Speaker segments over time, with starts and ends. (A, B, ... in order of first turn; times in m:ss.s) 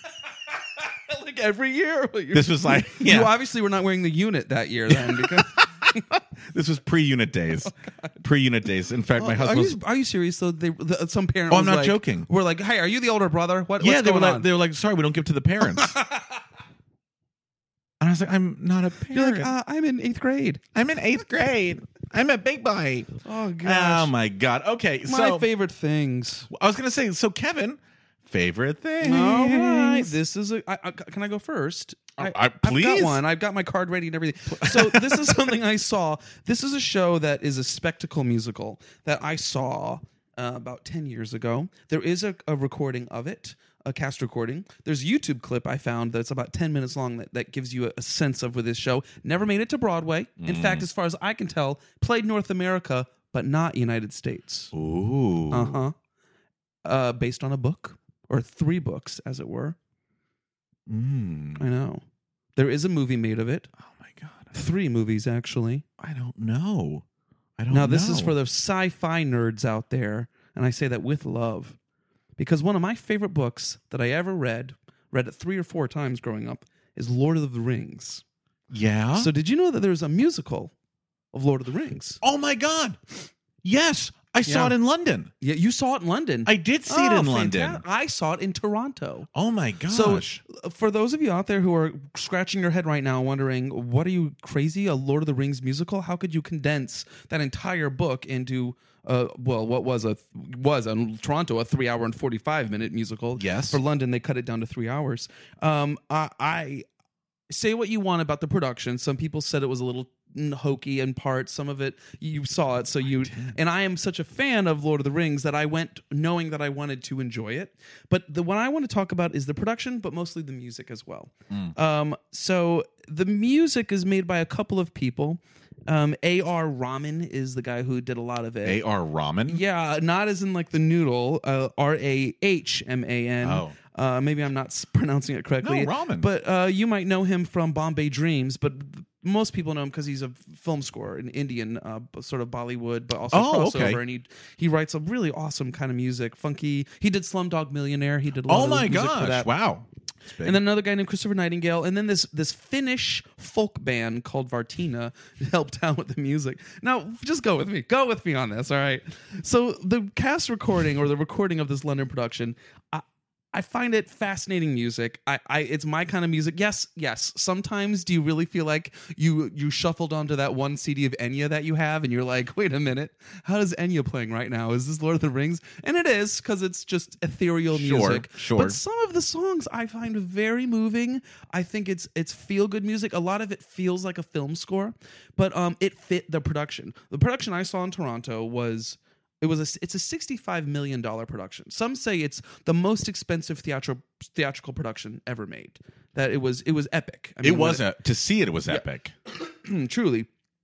0:00.8-0:06.0 A
0:02.3-0:03.3 B
0:04.9-0:09.8 B
0:07.8-0:08.1 A
0:09.2-0:14.5 A
0:11.5-0:12.3 B
0:13.8-0:16.0 B
0:15.8-0:16.2 A
0:18.0-0:19.5 B
0:19.1-0:20.6 A
0:20.7-0:25.5 B
0:23.2-0:24.1 A
0:25.1-0:26.5 A
0:26.5-0:30.1 B
0:29.0-0:54.7 A
0:32.2-0:33.2 B
0:34.6-0:35.4 B
0:50.4-0:50.9 B
0:54.7-0:55.8 B
0:55.5-0:55.9 A
0:56.8-0:59.8 A
1:00.9-1:01.7 B
1:01.6-1:02.0 A
1:02.6-1:03.7 A
1:03.8-1:04.5 B
1:04.5-1:05.8 A
1:06.0-1:07.0 B
1:07.6-1:08.4 B
1:07.7-1:11.8 A
1:12.4-1:18.2 A
1:18.7-1:19.3 B
1:19.1-1:20.7 A
1:21.3-1:22.2 A
1:22.2-1:25.3 B
1:24.4-1:24.7 A
1:25.4-1:29.3 A
1:26.4-1:27.8 B
1:29.3-1:30.4 B
1:29.9-1:46.8 A
1:43.4-1:43.8 B
1:47.5-2:08.8 A
1:53.0-1:53.6 B
2:08.6-2:09.6 B
2:09.5-2:29.5 A
2:13.4-2:13.8 B
2:15.6-2:16.3 B
2:23.3-2:24.0 B
2:28.5-2:30.6 B
2:30.4-3:17.8 A
2:57.7-2:58.8 B
3:17.4-3:19.1 B
3:19.4-3:20.3 A